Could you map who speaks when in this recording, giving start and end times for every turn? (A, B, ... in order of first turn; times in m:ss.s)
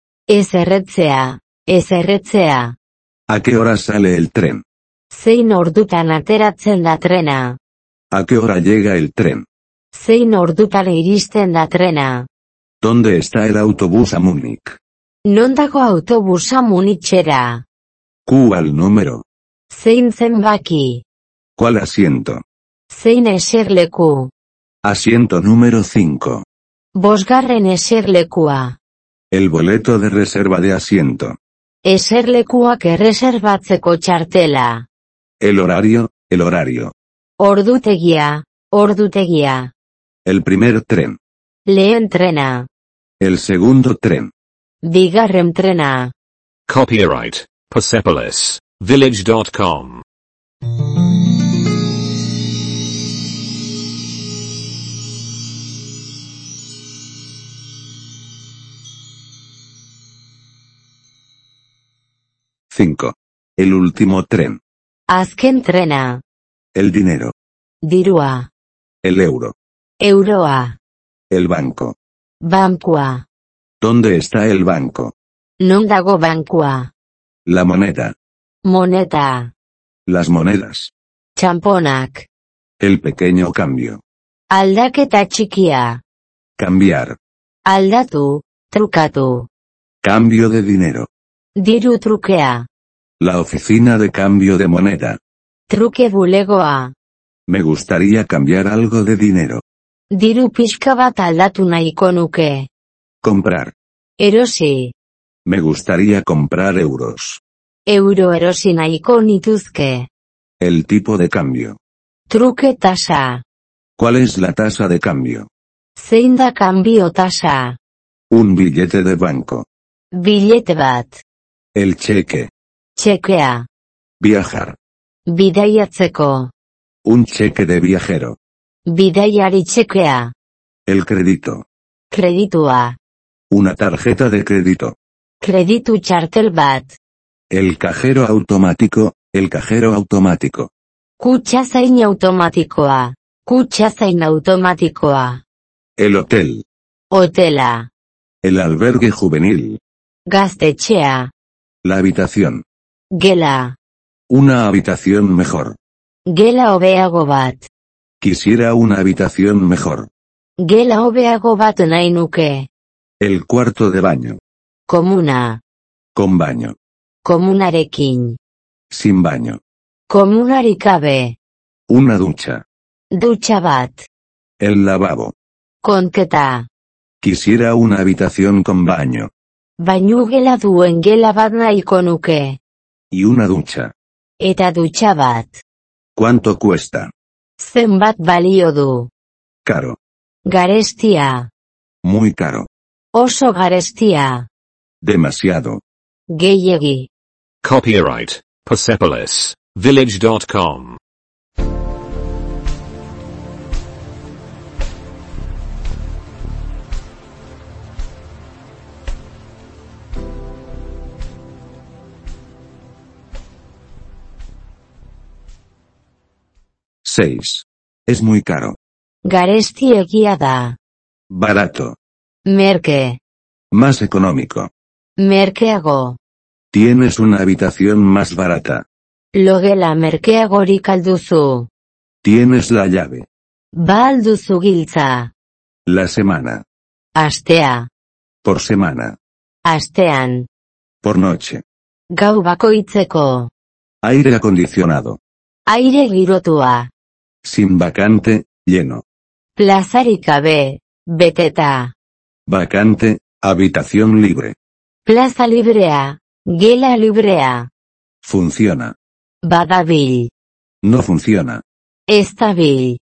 0:00.3-0:02.8 A
0:03.3-0:04.6 B
0:05.1-0:07.6 A
0:08.1-0:09.5 B
0:09.9-0:12.3 A
0:12.8-0:14.8 B
0:15.2-0:17.6 A
0:18.3-0:19.2 B
0:19.7-0:21.0 A
0:21.6-0:22.4 B
0:22.9-0:24.3 A
0:24.8-0:26.4 B
0:27.0-0:28.8 A
0:29.3-0:31.4 B
0:31.8-0:34.9 A
0:35.4-0:36.9 B
0:37.4-0:39.7 A
0:40.2-0:41.2 B
0:41.6-0:42.7 A
0:43.2-0:44.3 B
0:44.8-0:46.1 A
0:46.7-0:50.0 C
1:02.7-1:04.6 B
1:05.1-1:06.2 A
1:06.8-1:07.3 B
1:07.8-1:08.5 A
1:09.0-1:09.5 B
1:10.0-1:10.8 A
1:11.3-1:12.0 B
1:12.4-1:13.2 A
1:13.8-1:15.1 B
1:15.6-1:16.9 A
1:17.5-1:18.1 B
1:18.6-1:19.5 A
1:20.1-1:20.9 B
1:21.4-1:22.3 A
1:22.8-1:24.0 B
1:24.5-1:26.0 A
1:26.6-1:27.2 B
1:27.6-1:29.5 A
1:30.0-1:31.1 B
1:31.6-1:32.7 A
1:33.2-1:35.2 B
1:35.7-1:36.9 A
1:37.5-1:39.6 B
1:40.1-1:42.7 A
1:43.2-1:43.7 B
1:44.2-1:44.9 A
1:45.5-1:47.4 B
1:47.9-1:50.1 A
1:50.6-1:51.8 B
1:52.3-1:53.4 A
1:54.0-1:55.5 B
1:56.0-1:57.8 A
1:58.3-1:59.6 B
2:00.1-2:01.2 A
2:01.8-2:02.5 B
2:03.0-2:03.7 A
2:04.2-2:04.8 B
2:05.3-2:06.5 A
2:07.0-2:08.4 B
2:08.9-2:10.3 A
2:10.9-2:11.6 B
2:12.1-2:13.0 A
2:13.5-2:15.0 B
2:15.4-2:17.0 A
2:17.5-2:20.7 B
2:21.2-2:25.4 A
2:26.0-2:26.6 B
2:27.1-2:27.9 A
2:28.4-2:29.8 B
2:30.3-2:31.3 A
2:31.8-2:32.6 B
2:33.1-2:33.8 A
2:34.3-2:35.8 B
2:36.3-2:37.7 A
2:38.2-2:40.1 B
2:40.6-2:42.7 A
2:43.2-2:44.4 B
2:44.9-2:45.6 A
2:46.1-2:46.8 B
2:47.2-2:48.4 A
2:48.9-2:49.6 B
2:50.1-2:51.4 A
2:51.9-2:52.6 B
2:53.1-2:54.1 A
2:54.6-2:55.3 B
2:55.8-2:56.7 A
2:57.2-2:59.3 B
2:59.8-3:02.6 A
3:03.1-3:03.9 B
3:04.4-3:05.6 A
3:06.2-3:07.1 B
3:07.6-3:09.1 A
3:09.6-3:10.0 B
3:10.5-3:11.5 A
3:12.0-3:12.7 B
3:13.1-3:14.5 A
3:15.0-3:15.8 B
3:16.3-3:17.1 A
3:17.6-3:21.0 C
3:37.0-3:38.8 B
3:39.2-3:40.8 A
3:41.3-3:42.0 B
3:42.5-3:43.2 A
3:43.7-3:44.7 B
3:45.2-3:46.2 A
3:46.7-3:48.8 B
3:49.3-3:51.7 A
3:52.2-3:53.3 B
3:53.8-3:55.3 A
3:55.9-3:56.6 B
3:57.2-3:57.9 A
3:58.4-3:59.2 B
3:59.6-4:00.5 A
4:01.0-4:01.6 B
4:02.1-4:03.5 A
4:04.0-4:05.2 B
4:05.7-4:06.9 A
4:07.4-4:09.0 B
4:09.6-4:11.9 A
4:12.5-4:14.6 B
4:15.0-4:17.7 A
4:18.2-4:19.0 B
4:19.4-4:20.3 A
4:20.8-4:21.6 B
4:22.1-4:23.0 A